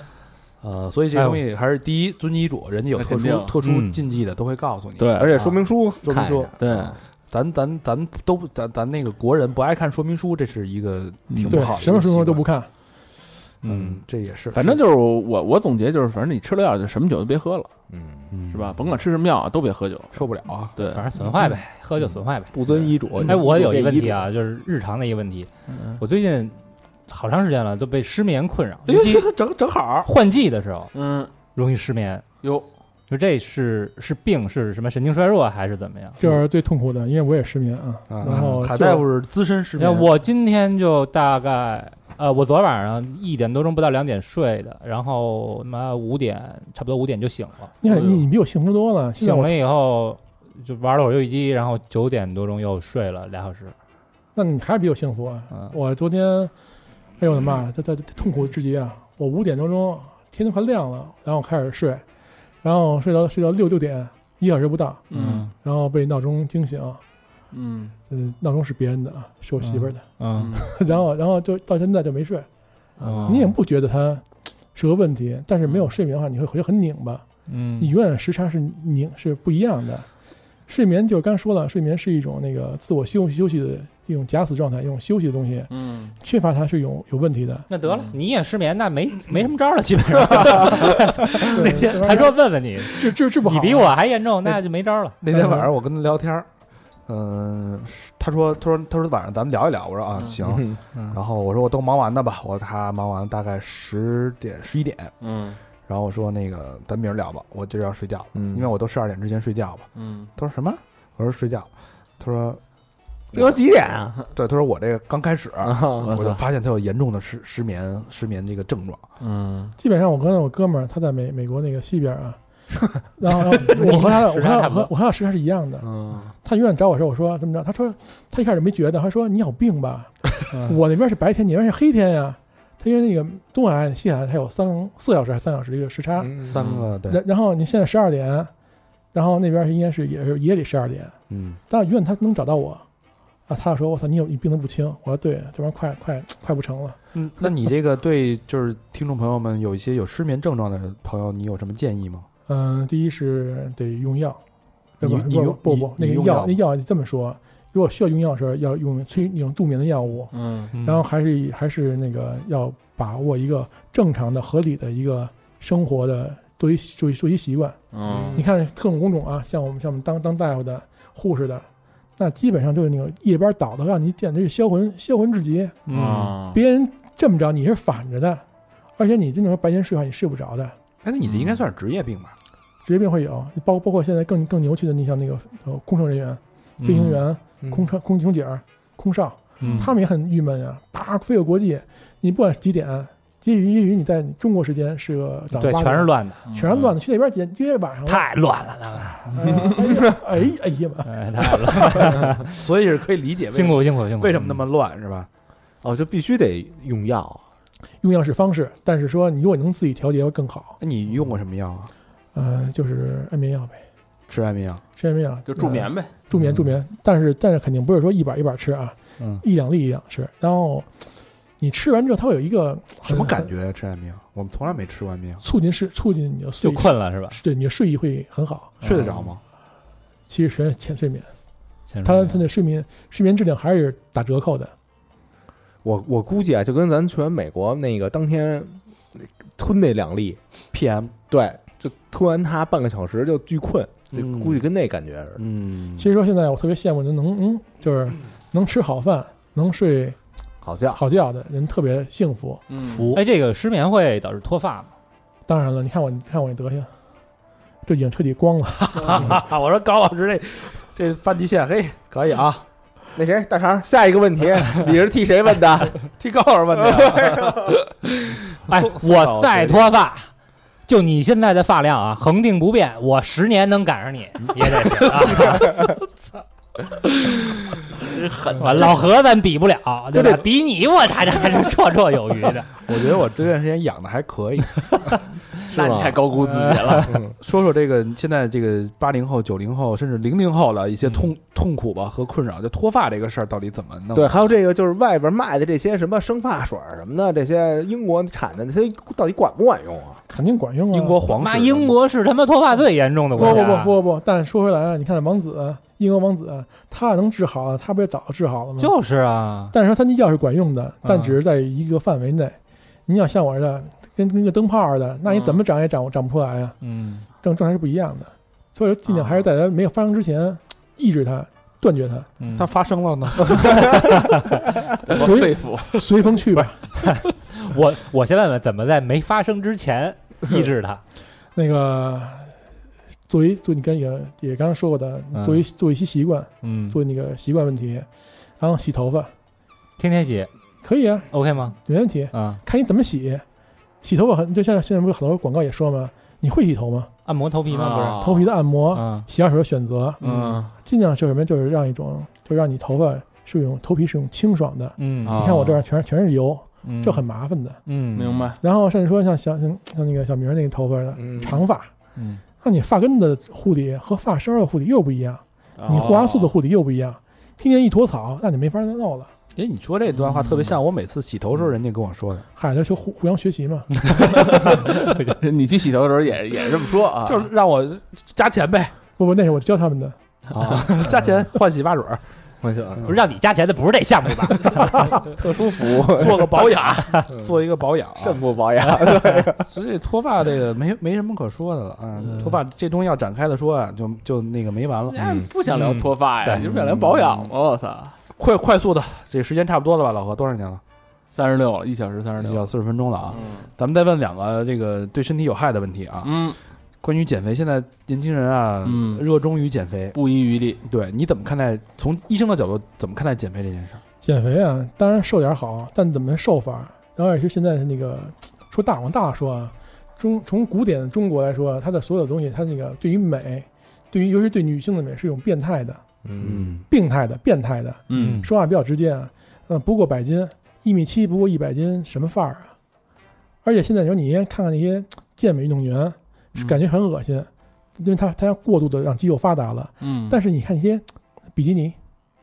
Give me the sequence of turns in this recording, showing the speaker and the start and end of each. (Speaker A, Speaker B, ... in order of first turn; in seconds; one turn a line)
Speaker A: 0.6-5.2
Speaker B: 1.1-1.4
Speaker C: 3.0-3.5
Speaker B: 3.6-4.0
Speaker C: 5.0-5.6
Speaker D: 5.2-6.9
Speaker A: 6.0-12.4
Speaker C: 6.6-7.0
Speaker C: 11.3-11.6
Speaker E: 11.5-12.7
Speaker A: 13.6-14.8
Speaker C: 14.5-17.7
Speaker D: 17.9-18.3
Speaker A: 18.3-18.9
Speaker C: 18.5-21.1
Speaker A: 20.1-20.8
Speaker B: 20.8-22.6
Speaker D: 22.5-24.3
Speaker B: 23.2-26.6
Speaker C: 25.7-26.0
Speaker B: 27.1-29.3
Speaker C: 28.9-29.2
Speaker A: 28.9-30.1
Speaker B: 30.1-30.9
Speaker C: 30.9-31.3
Speaker B: 31.5-32.3
Speaker C: 32.4-32.7
Speaker B: 33.1-36.2
Speaker E: 36.2-39.0
Speaker A: 38.1-40.1
Speaker B: 39.8-47.7
Speaker E: 47.8-49.5
Speaker C: 47.9-48.2
Speaker B: 49.2-53.8
Speaker E: 54.4-56.5
Speaker B: 55.5-55.8
Speaker E: 57.2-62.0
Speaker E: 62.6-67.0
Speaker C: 65.1-65.5
Speaker B: 65.2-65.5
Speaker C: 67.5-67.9
Speaker E: 68.1-72.5
Speaker B: 69.6-70.5
Speaker C: 70.3-70.7
Speaker C: 73.0-73.5
Speaker B: 73.0-73.5
Speaker E: 73.3-77.3
Speaker B: 77.5-77.9
Speaker E: 77.8-80.1
Speaker E: 80.7-87.7
Speaker C: 85.7-86.1
Speaker B: 87.7-95.2
Speaker C: 87.9-88.2
Speaker E: 91.4-93.9
Speaker A: 91.6-92.3
Speaker A: 95.2-96.5
Speaker E: 95.3-95.6
Speaker A: 97.1-105.2
Speaker D: 100.4-100.7
Speaker C: 105.2-105.6
Speaker A: 105.9-112.6
Speaker D: 108.3-108.7
Speaker C: 110.0-110.3
Speaker D: 113.3-114.2
Speaker A: 114.3-119.0
Speaker D: 115.6-116.1
Speaker C: 116.0-116.4
Speaker C: 119.2-119.7
Speaker E: 119.8-122.4
Speaker E: 123.0-125.9
Speaker B: 123.5-124.9
Speaker D: 125.8-126.3
Speaker E: 126.4-136.3
Speaker B: 130.5-130.8
Speaker D: 136.2-136.6
Speaker A: 136.4-137.2
Speaker C: 136.6-136.9
Speaker E: 137.1-138.5
Speaker E: 139.1-141.2
Speaker A: 141.3-141.6
Speaker E: 141.7-142.8
Speaker E: 143.5-147.0
Speaker A: 147.1-152.3
Speaker E: 152.5-154.4
Speaker A: 155.0-156.6
Speaker E: 155.0-171.7
Speaker C: 160.3-160.7
Speaker B: 160.7-161.0
Speaker C: 167.9-168.4
Speaker D: 168.0-168.4
Speaker E: 172.2-175.8
Speaker B: 175.9-176.3
Speaker C: 175.9-176.6
Speaker E: 176.4-178.4
Speaker E: 179.0-180.8
Speaker A: 181.0-182.3
Speaker C: 181.2-181.6
Speaker E: 182.8-198.3
Speaker B: 186.8-187.2
Speaker B: 189.6-189.9
Speaker C: 189.6-189.9
Speaker B: 195.6-196.5
Speaker C: 196.5-196.9
Speaker B: 198.1-199.7
Speaker E: 199.3-201.1
Speaker D: 199.9-200.1
Speaker B: 201.1-202.7
Speaker A: 202.6-205.3
Speaker B: 203.5-204.6
Speaker D: 205.8-207.4
Speaker E: 208.0-210.8
Speaker A: 210.8-211.9
Speaker E: 212.3-213.8
Speaker A: 214.3-214.8
Speaker E: 215.0-221.1
Speaker C: 215.5-216.1
Speaker E: 221.6-223.5
Speaker A: 223.1-225.4
Speaker E: 225.4-228.8
Speaker B: 226.6-227.4
Speaker A: 228.8-229.4
Speaker E: 230.3-231.3
Speaker B: 231.9-232.4
Speaker E: 232.0-234.7
Speaker D: 235.8-240.4
Speaker A: 240.7-241.1
Speaker D: 241.3-245.4
Speaker A: 244.1-244.6
Speaker A: 245.4-246.1
Speaker E: 246.0-250.2
Speaker D: 250.6-251.0
Speaker E: 250.9-252.6
Speaker C: 252.7-253.1
Speaker A: 252.8-253.2
Speaker B: 253.1-254.9
Speaker E: 255.5-256.9
Speaker E: 257.9-259.4
Speaker A: 258.9-262.6
Speaker D: 263.1-266.0
Speaker A: 266.2-269.9
Speaker D: 266.8-267.7
Speaker B: 268.7-270.3
Speaker B: 270.9-276.0
Speaker C: 278.1-279.0
Speaker B: 278.5-282.8
Speaker D: 280.1-280.5
Speaker A: 282.9-285.2
Speaker D: 285.7-286.2
Speaker C: 285.7-287.2
Speaker B: 286.5-287.0
Speaker D: 287.0-287.3
Speaker A: 287.4-294.3
Speaker D: 294.1-300.2
Speaker E: 300.3-301.2
Speaker A: 300.9-301.9
Speaker B: 301.3-303.9
Speaker E: 303.3-308.9
Speaker B: 308.8-309.7
Speaker E: 309.7-316.8
Speaker B: 311.0-311.3
Speaker C: 315.3-315.6
Speaker B: 316.8-317.3
Speaker E: 317.4-322.3
Speaker B: 319.1-319.4
Speaker B: 322.4-322.7
Speaker A: 322.5-324.0
Speaker B: 323.5-324.6
Speaker C: 325.0-325.9
Speaker E: 325.2-326.9
Speaker B: 326.6-331.0
Speaker E: 331.6-332.6
Speaker E: 333.3-338.1
Speaker B: 335.3-335.6
Speaker B: 336.6-337.0
Speaker E: 338.6-339.3
Speaker B: 340.0-340.5
Speaker E: 340.8-341.3
Speaker B: 341.3-341.8
Speaker E: 341.9-343.4
Speaker B: 342.3-342.6
Speaker E: 344.0-347.1
Speaker B: 347.3-348.2
Speaker C: 347.7-348.5
Speaker E: 348.2-357.8
Speaker B: 348.9-349.3
Speaker C: 350.2-350.7
Speaker B: 350.2-350.6
Speaker B: 355.0-355.6
Speaker C: 355.2-355.8
Speaker B: 356.8-357.2
Speaker B: 357.9-358.5
Speaker C: 358.1-358.6
Speaker E: 358.6-361.9
Speaker D: 361.2-361.6
Speaker E: 362.6-369.3
Speaker C: 365.8-366.5
Speaker A: 369.6-372.4
Speaker C: 370.1-370.7
Speaker E: 372.6-373.9
Speaker B: 374.1-375.4
Speaker C: 374.3-377.5
Speaker A: 377.2-378.9
Speaker E: 379.2-380.2
Speaker A: 380.5-382.2
Speaker D: 382.6-383.1
Speaker B: 383.0-385.3
Speaker D: 385.2-386.6
Speaker A: 386.1-388.4
Speaker D: 387.3-387.5
Speaker D: 388.2-389.7
Speaker A: 389.6-395.3
Speaker C: 392.2-392.6
Speaker C: 395.1-398.2
Speaker B: 395.7-396.7
Speaker A: 398.4-400.8
Speaker C: 401.3-402.7
Speaker A: 402.4-410.2
Speaker C: 403.3-403.7
Speaker C: 406.2-406.6
Speaker C: 408.9-409.2
Speaker C: 410.1-410.8
Speaker A: 410.8-414.0
Speaker E: 414.2-426.0
Speaker D: 426.2-426.8
Speaker A: 426.4-426.9
Speaker E: 426.9-432.7
Speaker C: 428.1-428.5
Speaker B: 428.1-428.5
Speaker E: 433.6-442.0
Speaker C: 440.0-440.4